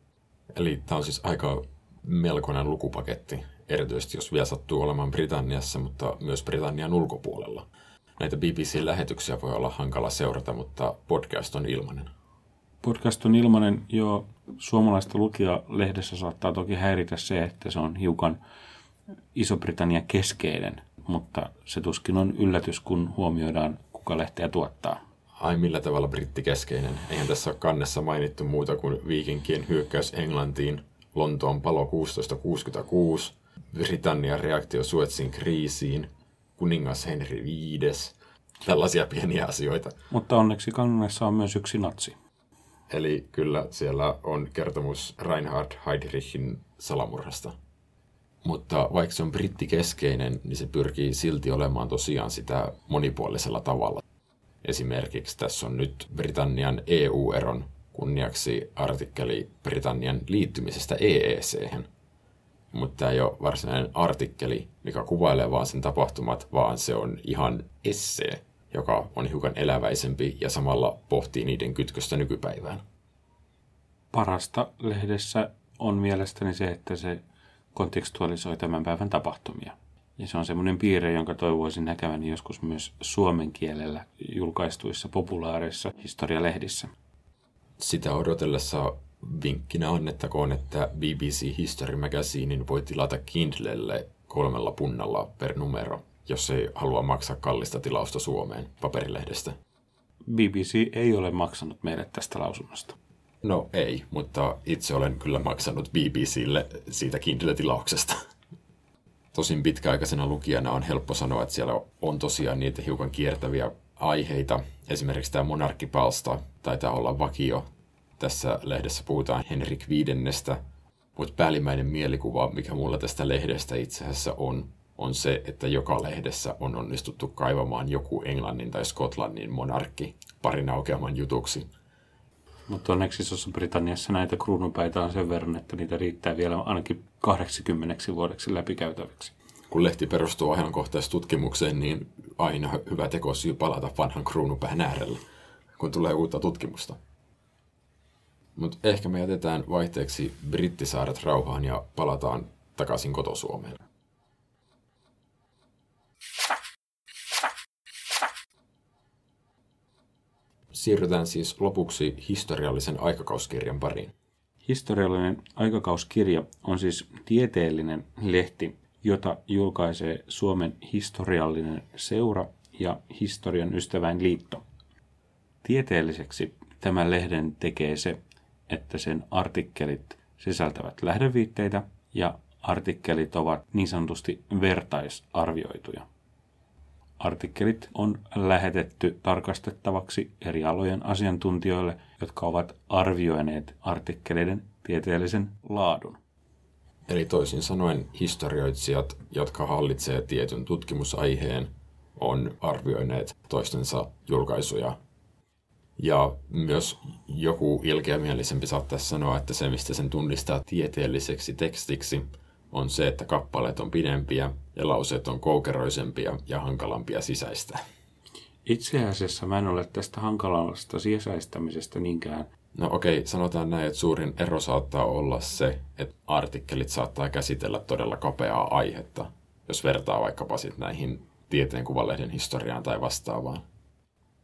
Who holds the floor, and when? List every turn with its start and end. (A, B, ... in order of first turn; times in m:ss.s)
0:00.5-0:12.1 A
0:12.8-0:18.4 B
0:19.3-0:25.0 B
0:25.4-0:40.0 A
0:40.1-0:42.1 B
0:42.9-0:47.6 A
0:48.4-0:54.0 A
0:54.6-1:01.9 A
1:02.7-1:12.8 A
1:14.1-1:17.2 B
1:17.7-1:26.9 B
1:27.8-1:39.6 A
1:40.2-1:43.0 B
1:43.4-1:48.2 A
1:49.3-1:57.6 A
1:58.2-2:00.6 A
2:01.2-2:11.7 A
2:12.7-2:19.3 B
2:19.7-2:25.2 A
2:25.8-2:27.0 A
2:28.6-2:33.8 A
2:40.7-2:44.1 A
2:44.6-2:54.6 B
2:55.6-2:58.2 B
2:58.7-3:06.0 B
3:07.2-3:16.2 B
3:17.1-3:25.0 A
3:26.0-3:37.8 A
3:38.6-3:42.5 B
3:42.7-3:53.6 A